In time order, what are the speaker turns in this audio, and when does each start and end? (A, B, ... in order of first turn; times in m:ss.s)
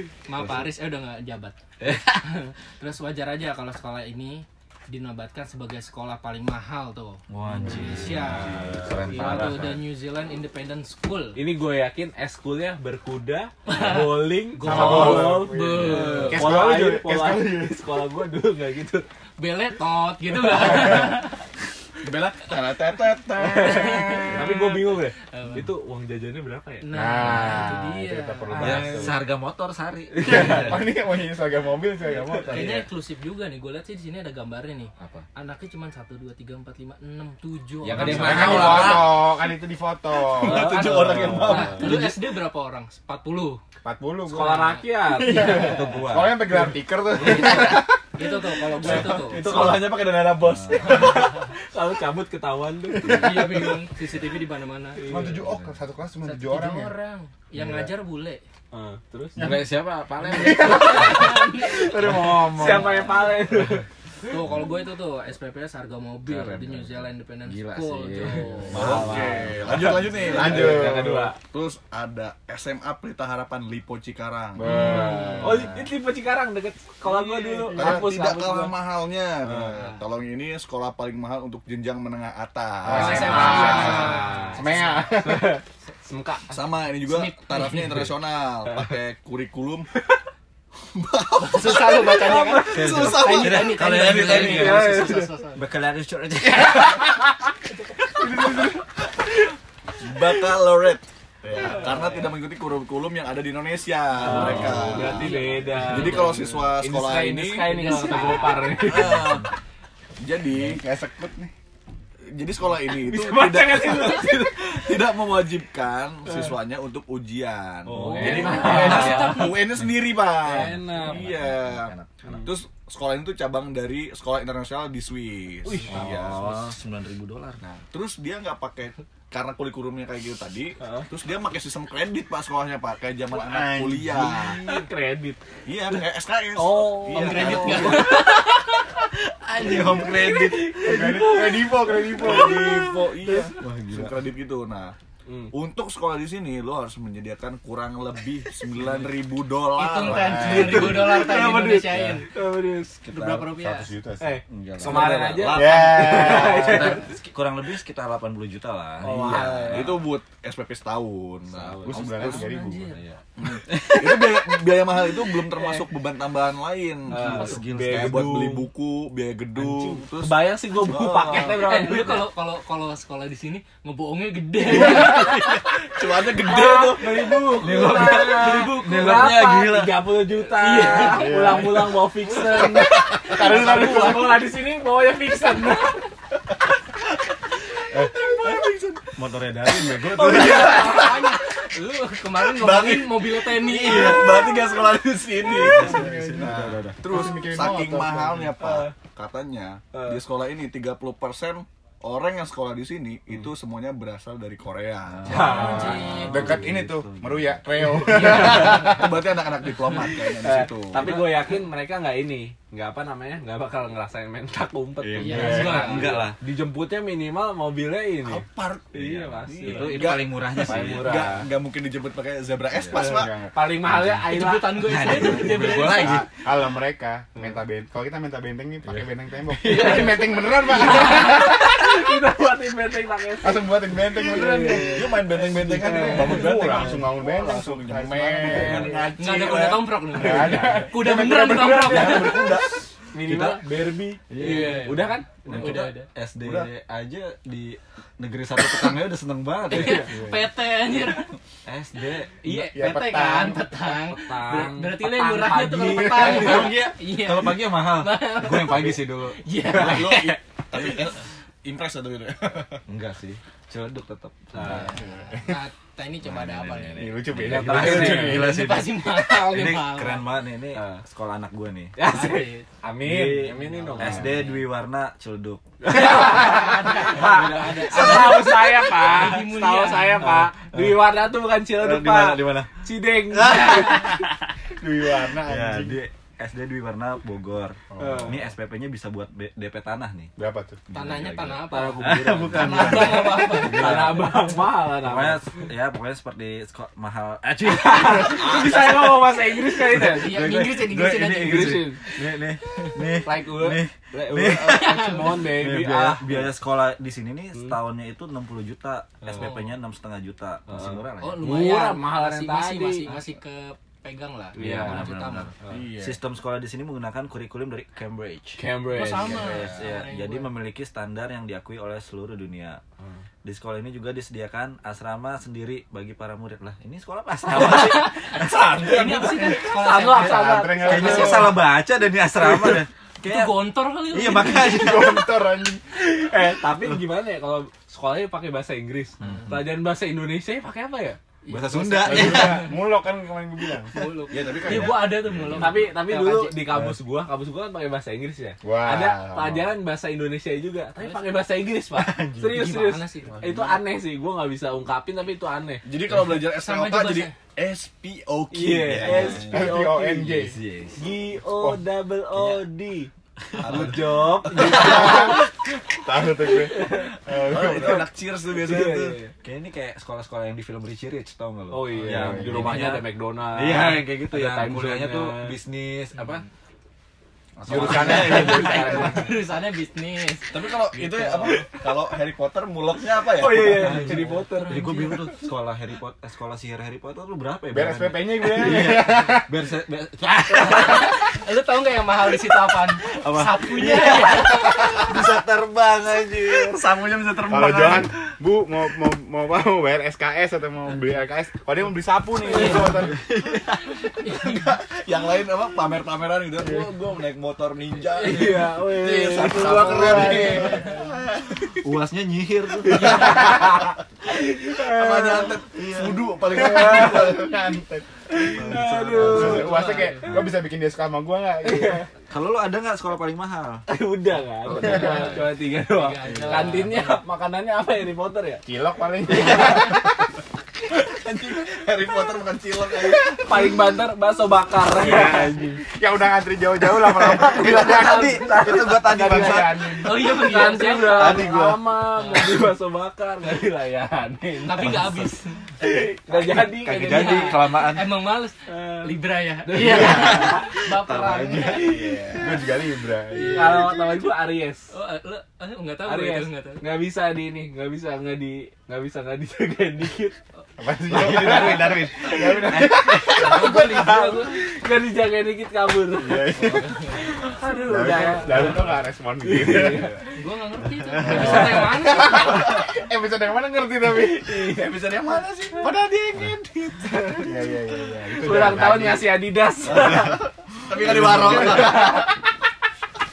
0:00.2-0:11.4 A
0:01.8-0:02.2 B
0:07.3-0:09.8 B
0:08.4-0:09.4 C
0:11.4-0:19.0 C
0:13.7-0:16.4 A
0:14.6-0:17.8 D
0:19.4-0:21.4 A
0:22.0-0:24.6 E
0:23.4-0:26.9 C
0:23.5-0:25.7 A
0:26.8-0:28.9 A
0:26.9-0:29.2 D
0:28.6-0:29.0 C
0:28.6-0:30.9 B
0:30.1-0:30.8 C
0:30.2-0:32.9 D
0:32.5-0:39.1 A
0:37.8-0:39.2 B
0:37.9-0:41.2 D
0:38.2-0:38.9 C
0:40.2-0:42.1 E
0:40.4-0:42.0 C
0:41.4-0:43.6 A
0:43.8-0:48.0 D
0:44.3-0:45.8 C
0:44.4-0:45.8 A
0:45.4-0:46.6 B
0:47.1-0:49.6 A
0:47.2-0:47.7 C
0:48.8-0:51.3 E
0:49.2-0:49.8 C
0:50.4-0:51.1 B
0:50.8-0:53.5 C
0:52.9-0:53.8 D
0:53.0-0:55.0 A
0:55.0-0:55.4 C
0:55.1-0:56.9 D
0:55.2-0:55.7 B
0:56.2-0:58.4 A
0:57.5-0:57.9 D
0:58.7-0:59.6 C
0:59.4-0:59.7 D
0:59.4-1:03.0 B
1:00.2-1:01.2 D
1:00.4-1:03.4 A
1:00.7-1:03.8 C
1:04.3-1:09.0 A
1:06.3-1:09.9 B
1:08.4-1:11.4 C
1:08.7-1:14.7 E
1:08.8-1:09.3 D
1:09.9-1:11.4 D
1:14.6-1:15.9 D
1:14.7-1:15.6 A
1:14.7-1:18.8 C
1:17.1-1:18.1 D
1:17.7-1:24.3 E
1:22.8-1:25.6 D
1:22.9-1:25.2 A
1:23.0-1:24.6 C
1:25.1-1:26.5 C
1:26.5-1:29.9 E
1:27.0-1:28.1 A
1:28.7-1:29.0 C
1:30.9-1:34.9 E
1:31.4-1:35.7 A
1:32.2-1:33.0 C
1:32.7-1:37.2 B
1:34.2-1:35.3 C
1:36.5-1:37.1 A
1:36.6-1:37.2 C
1:37.7-1:38.7 A
1:38.2-1:38.9 C
1:40.0-1:49.5 E
1:41.6-1:42.2 C
1:44.2-1:49.4 C
1:44.3-1:46.6 A
1:44.3-1:44.9 B
1:47.6-1:49.1 A
1:50.2-1:50.9 E
1:50.6-1:51.5 D
1:52.3-2:06.6 E
1:52.9-1:55.0 C
1:57.9-1:59.6 C
1:58.0-1:59.8 B
1:58.1-1:59.7 A
2:00.4-2:01.3 C
2:01.0-2:02.3 B
2:05.6-2:06.5 C
2:05.9-2:07.6 B
2:07.6-2:14.8 E
2:10.8-2:11.1 C
2:13.3-2:14.5 D
2:14.2-2:18.2 C
2:15.6-2:18.3 E
2:17.0-2:19.0 A
2:19.4-2:20.7 B
2:19.6-2:20.6 E
2:19.7-2:23.6 C
2:20.8-2:22.8 D
2:22.1-2:25.0 E
2:23.5-2:24.1 B
2:25.3-2:25.5 C
2:25.5-2:32.0 E
2:28.8-2:29.1 C
2:29.8-2:32.3 A
2:30.1-2:31.0 D
2:30.5-2:33.0 C
2:33.0-2:33.6 B
2:33.1-2:33.9 A
2:33.6-2:34.4 D
2:34.2-2:37.1 C
2:34.5-2:40.0 B
2:34.8-2:36.5 E
2:35.5-2:37.0 D
2:39.0-2:40.0 C
2:39.2-2:42.4 E
2:41.5-2:42.5 C
2:41.8-2:43.0 D
2:42.3-2:43.0 A
2:43.1-2:44.4 B
2:43.4-2:51.8 E
2:45.5-2:45.8 C
2:47.1-2:48.7 C
2:47.2-2:48.5 B
2:49.6-2:52.3 C
2:51.6-2:55.8 A
2:54.7-2:57.3 E
2:56.3-3:06.0 C
2:57.2-3:00.2 B
3:00.4-3:01.6 A
3:01.0-3:02.1 D
3:02.4-3:04.5 A
3:02.8-3:04.4 D
3:05.0-3:06.0 A
3:08.0-3:09.2 E
3:09.1-3:11.1 B
3:10.0-3:11.4 E
3:10.1-3:14.7 A
3:12.4-3:26.0 E
3:15.5-3:18.6 D
3:15.5-3:17.0 B
3:18.6-3:18.9 C
3:19.9-3:20.2 C
3:25.1-3:27.6 B
3:25.3-3:26.1 C
3:25.5-3:26.5 A
3:25.6-3:29.1 D
3:28.1-3:31.0 E
3:28.1-3:29.0 C
3:30.1-3:41.5 C
3:31.0-3:31.4 B
3:35.0-3:36.4 B
3:35.2-3:36.2 A
3:35.3-3:36.0 D
3:38.2-3:43.4 E
3:39.1-3:41.4 B
3:42.9-3:43.6 D
3:43.5-3:45.7 C
3:43.9-3:46.3 B
3:44.2-3:46.2 A
3:45.8-3:52.1 D
3:49.5-3:57.1 C
3:53.4-3:55.3 D
3:54.7-4:00.3 E
3:55.8-3:59.1 D
3:58.5-3:59.1 C
3:59.2-4:02.6 A
4:00.1-4:02.0 D
4:00.3-4:00.9 C
4:01.4-4:02.9 E
4:01.5-4:02.3 C
4:03.1-4:05.9 C
4:03.2-4:10.3 B
4:04.4-4:06.1 A
4:06.4-4:06.7 E
4:09.7-4:11.3 A
4:09.7-4:10.1 C
4:11.6-4:12.4 B
4:12.4-4:21.0 A
4:12.4-4:12.8 C
4:12.7-4:13.8 D
4:14.0-4:16.7 C
4:16.0-4:19.5 B
4:19.6-4:22.8 E
4:22.9-4:25.0 B
4:24.5-4:25.0 C
4:24.6-4:30.3 A
4:25.0-4:25.4 D
4:26.2-4:32.0 B
4:27.0-4:28.5 D
4:27.4-4:28.5 C
4:30.7-4:31.0 C
4:32.0-4:34.3 C
4:32.0-4:32.7 A
4:33.0-4:38.4 B
4:33.5-4:34.6 A
4:35.8-4:44.3 C
4:35.9-4:40.4 A
4:40.3-4:41.0 B
4:41.7-4:44.5 B
4:44.8-4:46.0 D
4:45.4-4:50.3 B
4:47.9-4:48.4 D
4:48.0-4:48.4 C
4:50.4-4:50.8 D
4:50.9-4:59.2 B
4:50.9-4:54.2 A
4:51.6-4:55.6 C
4:57.6-5:00.5 C
4:59.8-5:11.5 B
4:59.8-5:03.2 A
5:01.4-5:02.1 C
5:03.2-5:06.5 C
5:04.6-5:05.5 A
5:09.2-5:09.5 E
5:09.3-5:09.7 A
5:10.7-5:13.3 C
5:11.2-5:15.5 A
5:14.5-5:15.1 C
5:14.6-5:22.8 B
5:15.7-5:16.2 E
5:18.6-5:19.4 C
5:18.9-5:20.5 A
5:19.2-5:19.8 E
5:23.4-5:29.5 B
5:27.5-5:31.6 A
5:28.6-5:31.4 C
5:30.2-5:31.6 D
5:30.8-5:35.3 B
5:32.4-5:35.2 A
5:34.4-5:35.8 D
5:35.9-5:41.2 C
5:36.7-5:37.0 B
5:39.2-5:39.6 B
5:41.4-5:42.8 A
5:41.5-5:42.7 B
5:42.0-5:44.0 D
5:43.9-5:46.7 A
5:44.3-5:45.8 E
5:44.7-5:45.6 B
5:45.6-5:55.8 C
5:48.6-5:49.7 D
5:51.9-5:52.9 B
5:52.5-5:53.5 A
5:53.3-5:53.8 E
5:55.8-5:59.8 E
5:56.3-5:57.3 A
5:58.5-6:00.3 C
5:58.8-6:01.1 B
5:59.4-6:00.6 D
6:01.0-6:05.4 C
6:01.4-6:01.8 D
6:03.5-6:04.2 B
6:03.6-6:05.0 E
6:04.6-6:08.1 D
6:06.5-6:07.9 C
6:07.4-6:09.2 E
6:08.5-6:09.3 C
6:09.4-6:16.5 B
6:11.7-6:15.6 C
6:12.0-6:12.8 D
6:17.6-6:19.1 E
6:17.6-6:19.0 B
6:17.7-6:19.0 D
6:17.7-6:19.4 C
6:17.9-6:21.7 A
6:20.5-6:24.2 E
6:23.3-6:24.9 C
6:23.6-6:31.4 B
6:23.8-6:25.4 A
6:27.7-6:29.6 D
6:30.5-6:35.1 A
6:33.0-6:37.0 B
6:35.0-6:38.1 E
6:37.5-6:43.3 D
6:42.5-6:43.0 C
6:42.5-6:43.1 A
6:43.1-6:44.3 B
6:44.2-6:44.8 A
6:44.2-6:51.8 E
6:48.2-6:50.9 C
6:48.2-6:48.6 A
6:49.8-6:50.9 D
6:50.2-6:50.8 A
6:51.8-6:53.9 B
6:52.9-6:53.7 E
6:53.0-6:55.6 C
6:54.3-6:57.7 E
6:55.8-6:56.3 B
6:56.5-7:02.0 D
6:56.6-6:57.3 C
6:58.3-6:59.9 C
6:58.4-7:00.5 B
6:59.5-7:00.3 A
7:01.6-7:02.1 C
7:02.3-7:03.8 B
7:03.9-7:08.6 C
7:04.7-7:07.2 A
7:04.8-7:05.4 B
7:08.6-7:10.2 D
7:09.3-7:09.9 C
7:10.9-7:13.7 E
7:13.4-7:15.8 C
7:14.9-7:18.4 D
7:17.2-7:20.3 E
7:17.4-7:19.9 B
7:17.6-7:25.1 C
7:20.0-7:21.6 A
7:21.0-7:21.8 E
7:22.2-7:22.5 A
7:24.6-7:25.7 A
7:24.8-7:25.2 B
7:25.8-7:27.7 C
7:26.4-7:28.1 B
7:27.0-7:32.4 A
7:28.7-7:32.4 C
7:29.8-7:32.0 B
7:32.3-7:33.9 D
7:33.3-7:34.0 A
7:33.4-7:34.9 C
7:34.9-7:36.8 A
7:36.0-7:40.4 C
7:40.8-7:44.4 D
7:41.1-7:43.5 B
7:41.1-7:46.6 C
7:43.3-7:44.6 A
7:46.1-7:47.0 D
7:46.6-7:47.2 A
7:47.4-7:50.2 C
7:47.7-7:50.1 D
7:48.5-7:48.8 A
7:49.6-7:50.2 E
7:50.3-7:52.8 A
7:51.2-7:54.7 D
7:51.4-7:51.8 C
7:54.4-7:57.4 E
7:57.0-7:57.5 C
7:57.4-7:59.4 D
7:58.4-8:00.4 C
7:59.9-8:02.3 E
8:01.2-8:02.0 D
8:01.6-8:02.2 C